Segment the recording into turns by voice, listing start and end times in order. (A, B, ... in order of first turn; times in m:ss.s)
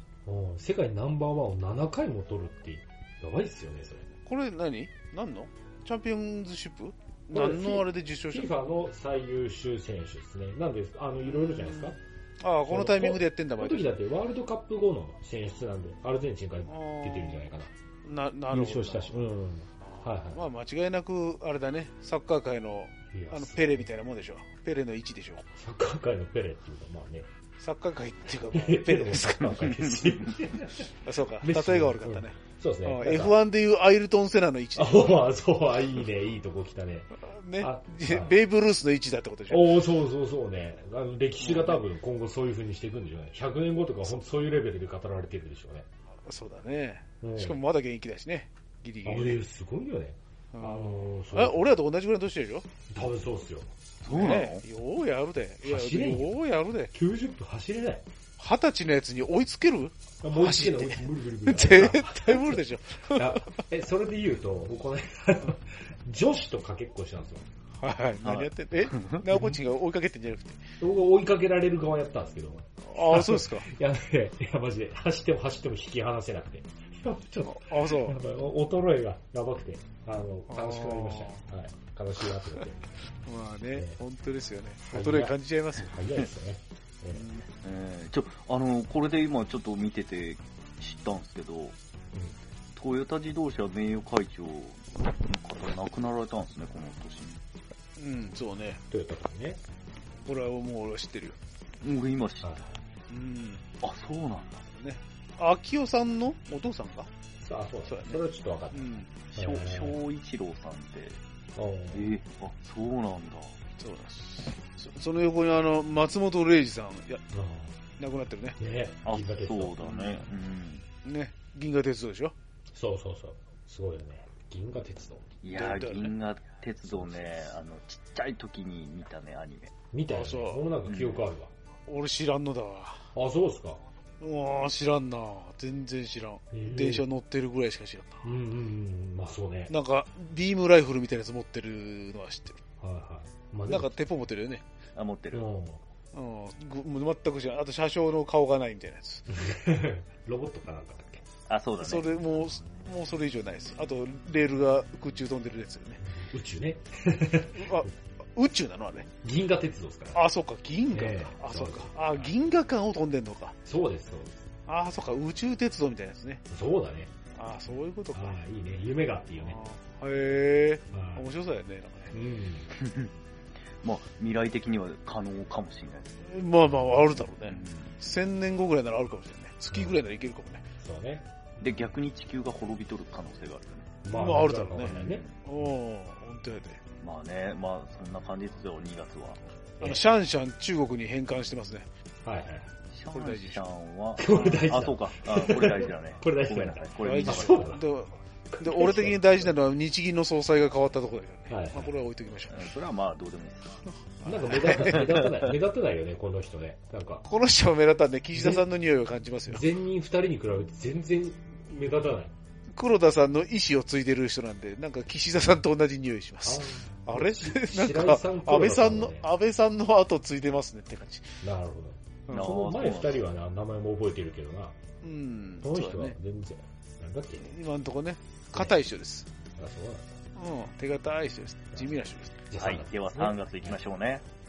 0:00.2-0:04.1 A
0:04.3-0:08.5 B
0:07.3-0:12.0 A
0:11.2-0:13.9 B
0:12.7-0:17.7 A
0:16.7-0:17.5 B
0:18.0-0:19.2 B
0:18.5-0:20.4 A
0:19.9-0:25.5 B
0:23.1-0:23.9 A
0:25.6-0:27.3 A
0:27.6-0:29.8 B
0:28.5-0:33.4 A
0:29.8-0:30.4 C
0:31.0-0:35.3 B
0:34.8-0:38.4 A
0:37.2-0:39.8 B
0:39.5-0:45.9 A
0:41.4-0:41.8 B
0:46.3-0:49.4 B
0:47.2-0:47.6 A
0:49.0-0:51.7 A
0:50.5-0:52.7 B
0:52.9-0:53.7 A
0:54.0-0:54.6 C
0:54.1-0:56.9 B
0:55.6-0:56.4 A
0:56.9-0:58.0 A
0:58.4-1:03.6 B
1:00.2-1:07.4 A
1:07.8-1:10.6 B
1:08.2-1:09.2 C
1:09.3-1:09.6 A
1:10.8-1:22.9 A
1:12.8-1:13.7 B
1:17.4-1:18.2 B
1:20.5-1:21.4 B
1:23.2-1:26.0 B
1:24.9-1:27.3 A
1:27.1-1:27.4 B
1:27.5-1:31.8 C
1:32.8-1:37.4 C
1:38.0-1:38.8 B
1:38.9-1:39.6 A
1:40.3-1:41.4 B
1:41.8-1:42.5 C
1:42.4-1:42.8 A
1:43.1-1:43.6 B
1:43.8-1:44.7 C
1:44.7-1:47.1 B
1:47.4-1:50.0 A
1:47.9-1:49.1 B
1:49.3-1:51.2 C
1:51.6-1:52.1 A
1:51.9-1:53.5 C
1:53.8-1:57.2 B
1:57.3-1:57.8 A
1:58.0-1:58.6 B
1:58.6-2:00.0 A
1:59.1-2:00.8 C
1:59.9-2:00.2 B
2:01.0-2:02.3 B
2:02.7-2:05.3 A
2:05.4-2:09.7 C
2:05.6-2:06.1 B
2:06.8-2:07.3 A
2:09.9-2:11.5 A
2:10.1-2:10.6 B
2:10.8-2:11.2 C
2:11.9-2:13.1 B
2:13.2-2:13.8 A
2:14.2-2:18.3 B
2:16.5-2:17.0 A
2:18.2-2:19.7 A
2:19.7-2:22.6 B
2:22.8-2:23.9 A
2:23.7-2:24.6 B
2:25.0-2:25.4 C
2:25.3-2:25.8 A
2:26.1-2:29.3 B
2:29.3-2:31.2 A
2:31.5-2:32.1 C
2:31.8-2:36.0 B
2:36.0-2:37.8 A
2:37.5-2:39.1 B
2:39.2-2:40.2 A
2:40.1-2:43.6 B
2:40.9-2:42.3 A
2:43.6-2:44.4 A
2:44.7-2:46.4 B
2:46.5-2:47.1 A
2:47.4-2:48.4 B
2:48.1-2:49.6 A
2:49.4-2:52.1 B
2:50.9-2:51.2 A
2:52.1-2:52.7 A
2:52.7-2:53.1 C
2:53.8-2:56.2 C
2:56.2-3:00.7 B
2:57.4-2:58.0 C
2:59.7-3:00.0 A
3:00.8-3:01.3 A
3:01.6-3:04.2 C
3:04.0-3:05.7 A
3:04.1-3:06.8 B
3:04.8-3:05.3 C
3:07.0-3:09.4 C
3:09.8-3:11.9 B
3:12.2-3:12.7 A
3:12.9-3:17.8 C
3:13.1-3:13.6 B
3:14.2-3:17.8 A
3:17.0-3:22.7 B
3:18.5-3:19.5 A
3:21.5-3:21.9 A
3:22.5-3:23.8 C
3:24.2-3:25.1 B
3:24.2-3:27.2 A
3:24.7-3:25.5 C
3:27.2-3:29.7 B
3:28.4-3:28.6 A
3:29.5-3:32.3 A
3:32.8-3:41.4 B
3:36.4-3:39.3 A
3:41.4-3:44.8 A
3:42.3-3:43.3 C
3:45.0-3:46.2 B
3:45.6-3:47.5 A
3:47.4-3:49.3 B
3:48.5-3:48.8 A
3:49.6-3:50.1 A
3:50.4-3:52.4 B
3:52.5-3:53.8 A
3:52.6-3:54.2 C